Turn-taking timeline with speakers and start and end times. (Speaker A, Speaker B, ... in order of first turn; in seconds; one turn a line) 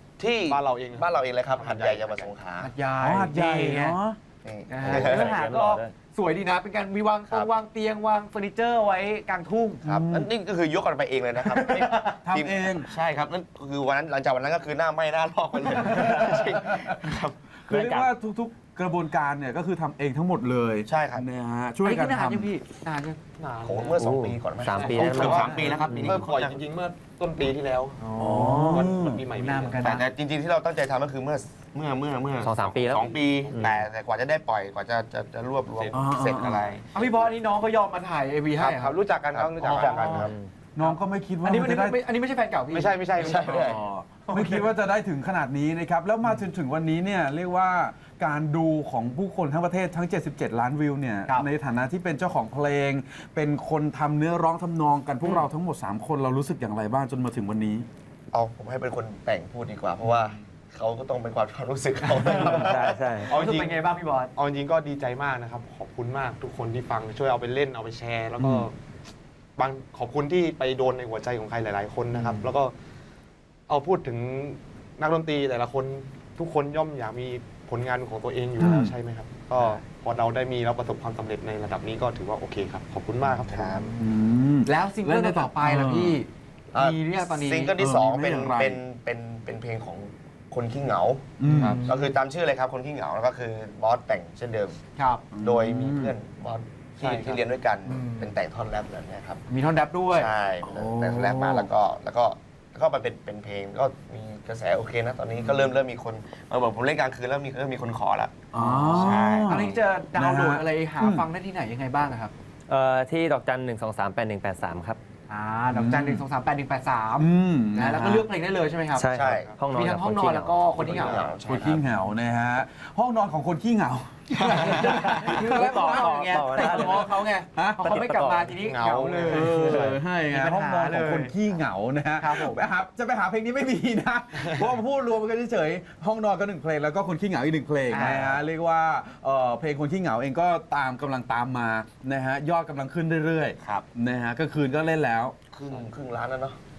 Speaker A: 0.2-2.7
Speaker B: 0.4-2.3
Speaker C: 2.6-4.0
Speaker D: 3.0-4.2
Speaker A: 4.4-5.4
Speaker C: 4.7-9.8
Speaker E: 4.8-5.9
Speaker A: 9.8-17.4
Speaker D: 9.8-10.3
Speaker C: 11.4-12.2
Speaker D: 12.2-12.9
Speaker D: 15.9-17.1
Speaker E: 15.9-16.4
Speaker D: 17.7-22.5
Speaker E: 17.7-18.1
Speaker A: 20.9-21.2
Speaker C: 21.8-23.2
Speaker B: 23.4-28.1
Speaker A: 23.6-26.6
Speaker E: 24.0-26.2
Speaker D: 25.4-25.6
Speaker C: 28.0-30.0
Speaker D: 28.2-29.2
Speaker B: 28.6-29.9
Speaker A: 29.8-36.8
Speaker E: 32.4-33.9
Speaker B: 35.7-36.2
Speaker D: 35.9-36.7
Speaker C: 36.9-39.0
Speaker B: 38.6-40.3
Speaker A: 39.2-40.3
Speaker C: 39.6-43.8
Speaker E: 40.1-40.5
Speaker D: 40.8-42.0
Speaker B: 42.7-44.7
Speaker A: 43.2-43.8
Speaker D: 43.7-57.9
Speaker A: 58.3-63.1
Speaker C: 62.0-62.7
Speaker E: 62.5-63.4
Speaker B: 63.2-68.7
Speaker C: 63.2-64.3
Speaker D: 68.4-68.6
Speaker B: 69.6-72.7
Speaker B: 73.7-83.8
Speaker D: 78.6-78.9
Speaker C: 79.5-79.8
Speaker A: 83.5-84.0
Speaker D: 84.0-86.2
Speaker C: 84.6-87.8
Speaker A: 86.7-94.8
Speaker D: 87.8-88.8
Speaker D: 91.4-91.8
Speaker C: 91.5-92.1
Speaker B: 91.5-91.8
Speaker C: 95.0-95.2
Speaker D: 95.3-96.1
Speaker A: 95.4-99.4
Speaker B: 97.0-97.4
Speaker C: 97.8-98.3
Speaker C: 99.5-100.3
Speaker A: 100.1-109.8
Speaker D: 100.6-101.7
Speaker D: 108.5-111.3
Speaker C: 108.5-112.3
Speaker E: 112.7-115.0
Speaker C: 115.3-119.1
Speaker D: 115.7-116.2
Speaker D: 117.2-118.3
Speaker E: 118.9-121.2
Speaker A: 119.1-119.5
Speaker C: 119.7-121.3
Speaker A: 120.7-121.9
Speaker D: 121.4-128.0
Speaker C: 124.3-131.3
Speaker E: 124.8-127.1
Speaker E: 127.8-128.6
Speaker B: 128.7-129.5
Speaker D: 129.3-145.3
Speaker E: 129.6-130.0
Speaker C: 132.2-132.6
Speaker C: 137.9-138.3
Speaker A: 137.9-138.4
Speaker A: 143.6-143.9
Speaker A: 145.5-146.6
Speaker B: 145.7-145.9